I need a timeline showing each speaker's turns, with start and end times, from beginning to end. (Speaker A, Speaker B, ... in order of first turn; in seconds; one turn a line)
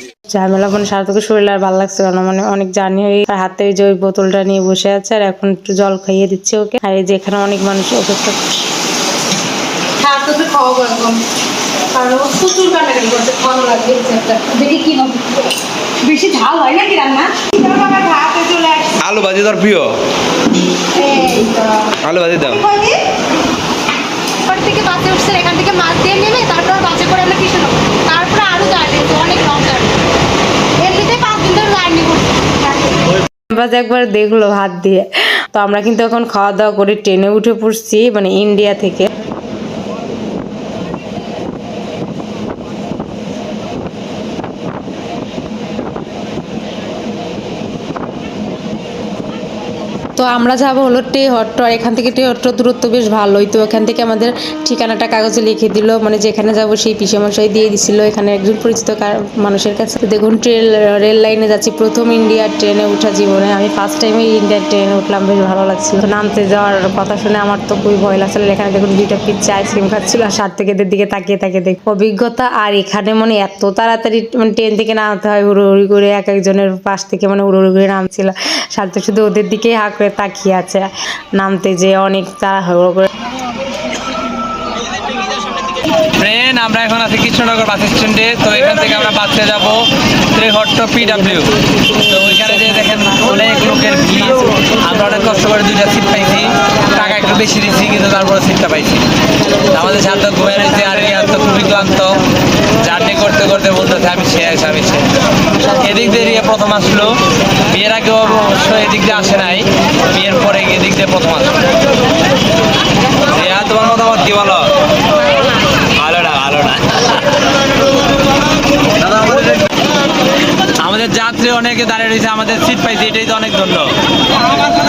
Speaker A: 0.3-8.4
Speaker B: 10.0-11.2
Speaker B: 11.9-19.0
Speaker C: 19.0-19.9
Speaker B: 20.9-23.0
Speaker C: 22.0-22.6
Speaker B: 24.4-29.9
Speaker B: 30.8-33.1
Speaker A: 33.5-39.1
Speaker A: 50.1-83.1
Speaker C: 86.1-89.8
Speaker C: 90.3-91.5
Speaker C: 92.1-99.0
Speaker C: 99.7-102.2
Speaker C: 102.8-105.0
Speaker C: 105.7-107.1
Speaker C: 107.7-111.5
Speaker C: 113.3-114.7
Speaker C: 116.0-117.2
Speaker C: 119.0-119.6
Speaker C: 120.8-123.9